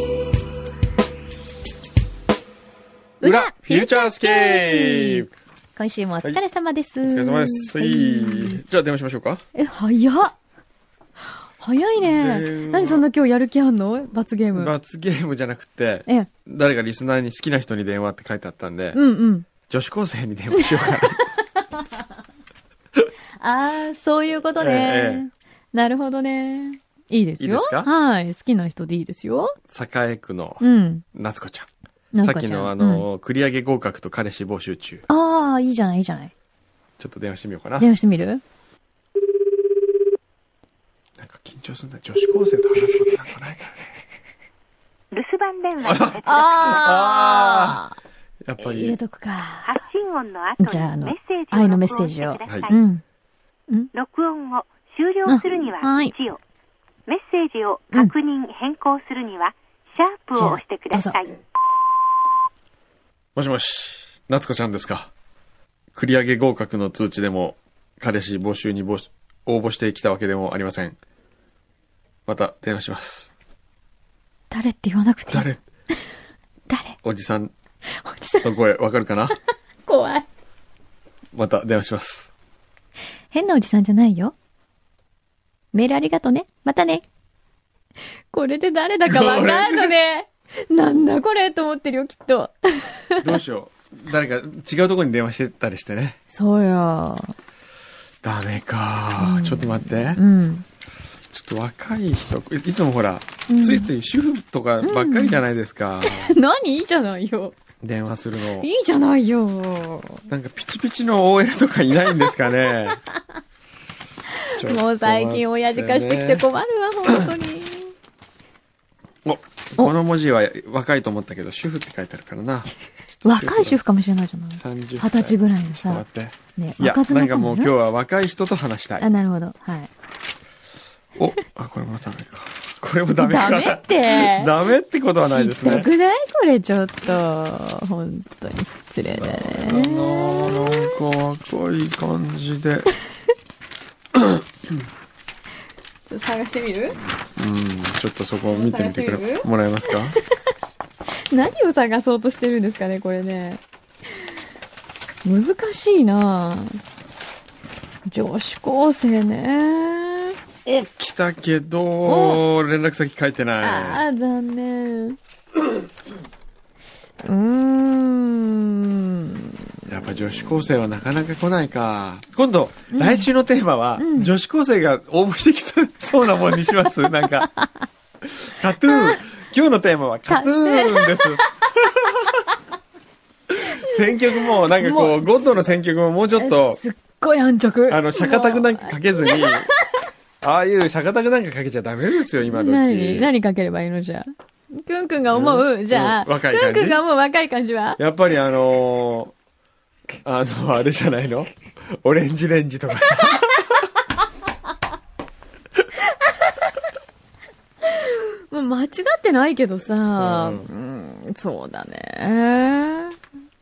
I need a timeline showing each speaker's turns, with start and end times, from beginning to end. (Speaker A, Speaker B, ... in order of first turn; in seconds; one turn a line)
Speaker A: 3.2-5.3
Speaker B: 3.2-8.6
Speaker A: 7.0-9.4
Speaker B: 9.6-10.3
Speaker B: 11.6-14.7
Speaker A: 12.0-13.0
Speaker A: 14.5-19.0
Speaker B: 18.9-19.5
Speaker A: 19.7-21.2
Speaker B: 20.5-21.9
Speaker B: 23.4-29.6
Speaker A: 24.6-25.2
Speaker A: 27.4-27.9
Speaker A: 29.7-30.6
Speaker B: 30.6-31.0
Speaker A: 31.1-31.7
Speaker B: 32.1-33.0
Speaker A: 32.2-35.0
Speaker B: 35.1-36.3
Speaker A: 37.0-37.9
Speaker B: 37.8-38.4
Speaker A: 41.2-44.0
Speaker C: 45.1-46.8
Speaker A: 45.8-47.8
Speaker B: 46.2-48.0
Speaker A: 48.5-49.0
Speaker B: 48.6-49.8
Speaker C: 49.6-52.8
Speaker B: 50.6-53.0
Speaker A: 52.5-52.7
Speaker C: 53.9-56.4
Speaker B: 55.3-56.1
Speaker C: 57.1-61.4
Speaker B: 60.4-61.2
Speaker A: 63.4-65.1
Speaker A: 65.9-71.0
Speaker A: 72.3-73.3
Speaker B: 74.5-75.5
Speaker A: 75.3-75.6
Speaker B: 76.7-77.0
Speaker A: 77.0-77.5
Speaker B: 78.0-78.5
Speaker A: 78.4-79.4
Speaker B: 79.9-80.3
Speaker A: 81.3-82.3
Speaker B: 83.3-84.3
Speaker B: 85.7-87.0
Speaker B: 88.3-93.3
Speaker A: 89.1-89.9
Speaker A: 93.2-96.2
Speaker B: 96.3-97.3
Speaker A: 98.2-100.2
Speaker B: 99.2-100.7
Speaker A: 101.3-106.4
Speaker B: 103.5-103.9
Speaker B: 104.8-105.4
Speaker B: 106.0-107.6
Speaker A: 107.8-108.7
Speaker B: 108.6-110.3
Speaker A: 110.3-113.0
Speaker B: 114.3-117.9
Speaker A: 114.6-116.5
Speaker A: 119.2-122.7
Speaker B: 123.2-126.0
Speaker A: 123.4-123.8
Speaker A: 124.6-129.1
Speaker B: 126.6-127.7
Speaker B: 129.0-129.9
Speaker A: 131.2-135.9
Speaker B: 133.2-134.6
Speaker B: 135.2-140.9
Speaker A: 139.2-142.9
Speaker A: 144.1-144.8
Speaker B: 146.1-147.0
Speaker A: 147.4-150.2
Speaker B: 148.5-149.5
Speaker B: 151.3-153.6
Speaker B: 155.2-156.8
Speaker B: 158.1-160.3
Speaker A: 160.7-164.0
Speaker B: 162.1-162.4
Speaker B: 163.6-165.2
Speaker B: 167.2-169.7
Speaker A: 169.9-177.5
Speaker B: 172.9-173.3
Speaker B: 174.0-174.3
Speaker A: 178.2-182.3
Speaker B: 178.9-179.2
Speaker B: 180.3-181.4
Speaker A: 183.5-186.8
Speaker B: 183.8-185.7
Speaker B: 186.3-190.1
Speaker A: 187.9-189.7
Speaker A: 190.4-193.3
Speaker B: 192.5-198.0
Speaker A: 195.3-197.0
Speaker A: 198.0-199.3
Speaker A: 200.2-203.9
Speaker B: 206.1-206.7
Speaker B: 207.8-213.2
Speaker A: 210.2-210.7